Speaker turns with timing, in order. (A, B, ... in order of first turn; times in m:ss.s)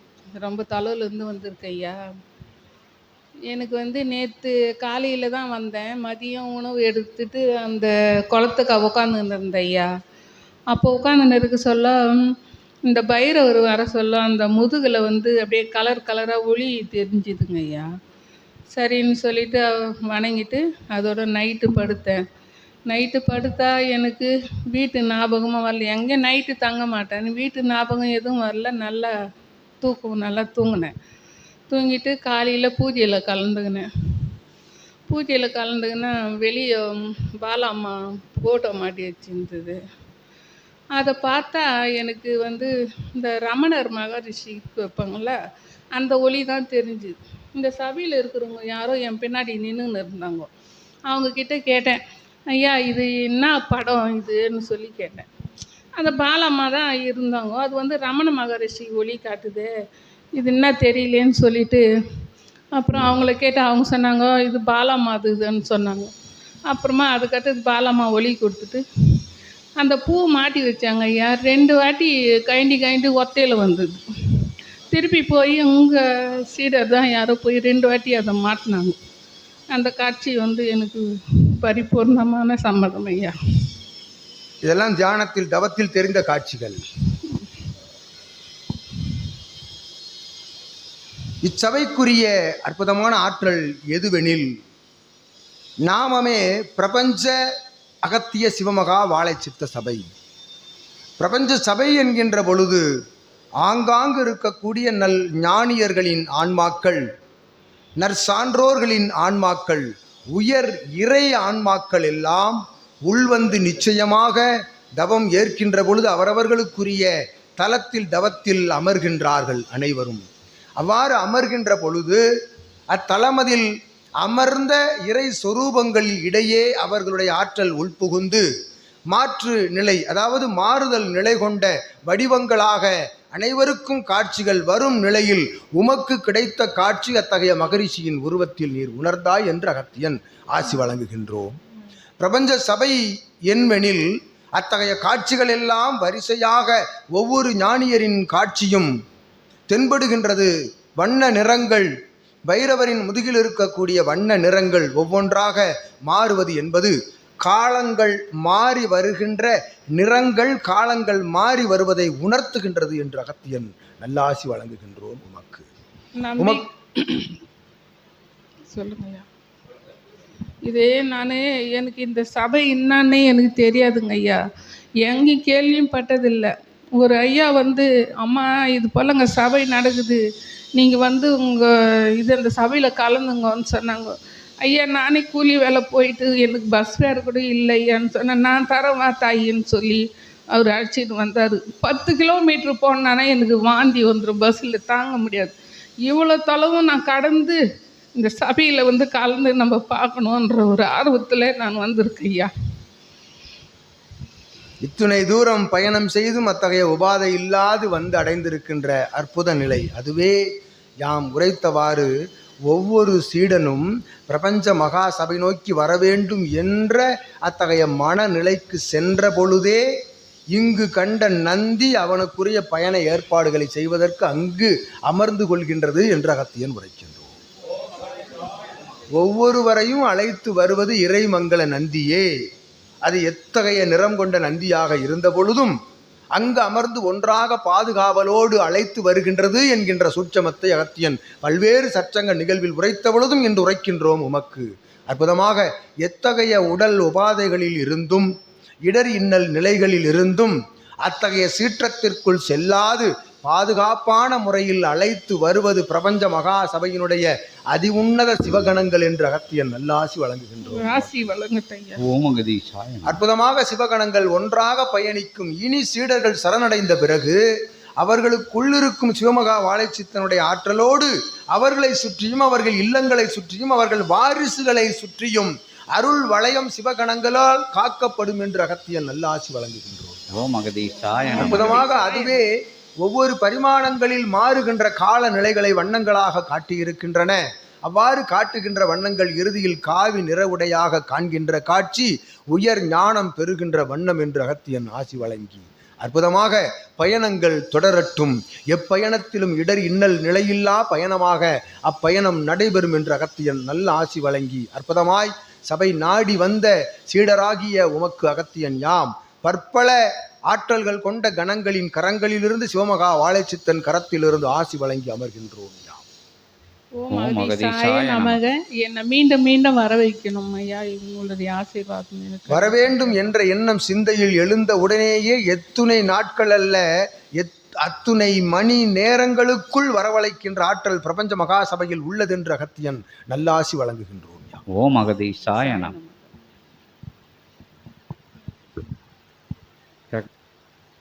0:00.4-0:02.0 A
0:03.5-0:09.9 A
0:10.7-0:12.0 A
0:12.9-0:17.9 A
0:18.7-0:22.2 A
0:22.9-0:29.1 A
0:29.8-0:30.9 A
0:31.7-0:33.9 A
0:35.1-0:39.8 A
0:41.0-0:45.4 A
0:46.0-0:50.5 A
0:51.1-0:52.0 A
0:52.5-0:55.3 A
0:56.0-0:59.7 A
1:00.4-1:01.8 A
1:02.8-1:06.1 A
1:06.7-1:08.8 A
1:09.8-1:19.0 A
1:19.7-1:23.4 A
1:24.6-1:26.8 B
1:31.4-1:34.5 B
1:35.9-1:37.3 B
1:38.0-1:40.1 B
1:41.2-1:42.8 B
1:43.6-1:47.0 B
1:48.0-1:54.4 B
1:55.0-2:00.2 B
2:00.8-2:02.2 B
2:02.9-2:03.7 B
2:04.2-2:08.4 B
2:09.1-2:21.6 B
2:22.2-2:28.9 B
2:29.7-2:31.9 B
2:32.5-2:45.7 B
2:46.2-2:47.4 A
2:48.7-2:49.3 A
2:50.7-2:54.4 A
2:55.0-3:00.2 A
3:00.8-3:17.6 A
3:18.2-3:22.5 A
3:24.8-3:30.4 B
3:31.0-3:32.1 B
3:32.7-3:39.8 B
3:40.5-3:47.3 B
3:49.2-3:52.3 B
3:53.0-3:55.8 B
3:56.3-4:08.3 B
4:08.8-4:21.2 B
4:20.7-4:22.0 A
4:22.0-4:23.2 C
4:23.0-4:27.4 B
4:28.0-4:40.3 B
4:40.3-4:41.8 C
4:40.9-4:42.4 A
4:41.3-4:42.5 B
4:43.0-5:10.0 B
5:10.5-5:16.0 B
5:17.0-5:23.3 A
5:17.1-5:18.4 C
5:22.5-5:26.8 B
5:27.4-5:34.6 B
5:34.7-5:35.9 C
5:35.5-5:36.3 A